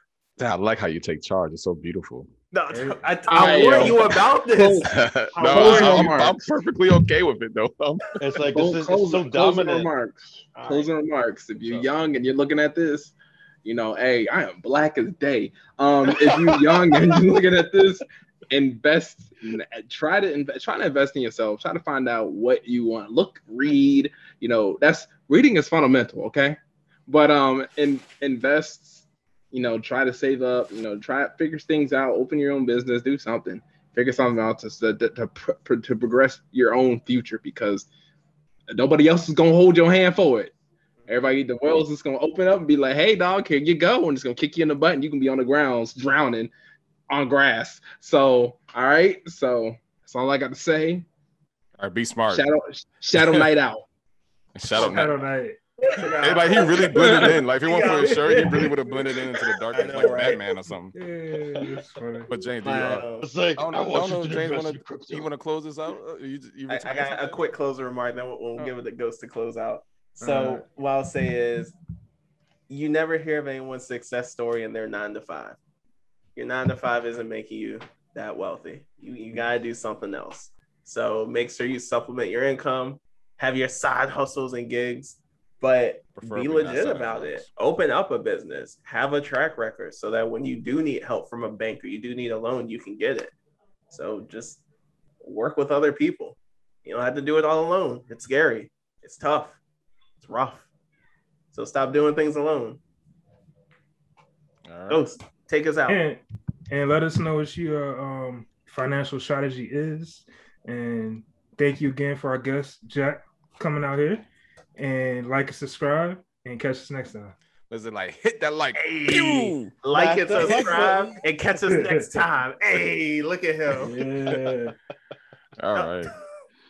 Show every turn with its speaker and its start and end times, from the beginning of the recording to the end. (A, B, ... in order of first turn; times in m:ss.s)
0:00.4-0:02.3 A
0:02.5-0:06.1 B
0:02.7-0:03.9 C
0:03.3-0:06.4 D
0:04.8-0:08.2 A
0:08.2-0:09.9 E
0:08.4-0:37.9 D
0:10.5-0:10.9 B
0:16.1-0:17.2 E
0:38.7-0:40.5 D
0:41.1-0:46.5 D
0:47.1-0:51.0 D
0:51.8-0:52.5 A
0:52.3-0:53.8 D
0:54.5-0:55.2 A
0:54.7-0:55.6 C
0:55.8-0:58.7 B
0:56.2-1:00.9 A
0:56.9-0:57.3 D
0:59.7-1:00.4 B
1:00.9-1:02.3 C
1:02.3-1:07.5 A
1:02.6-1:03.3 B
1:03.2-1:05.3 E
1:06.7-1:11.7 B
1:10.2-1:10.6 C
1:12.7-1:15.6 B
1:16.4-1:33.3 B
1:26.2-1:27.5 A
1:33.9-1:34.6 B
1:35.2-1:39.6 B
1:40.2-1:40.7 B
1:41.5-1:42.8 B
1:44.7-1:45.0 A
1:44.9-1:46.0 B
1:45.9-1:54.2 C
1:54.8-1:57.3 C
1:57.7-1:59.7 A
1:58.7-2:04.0 B
1:59.9-2:01.2 E
2:01.7-2:02.1 C
2:03.7-2:04.7 C
2:05.6-2:06.1 A
2:05.8-2:06.3 B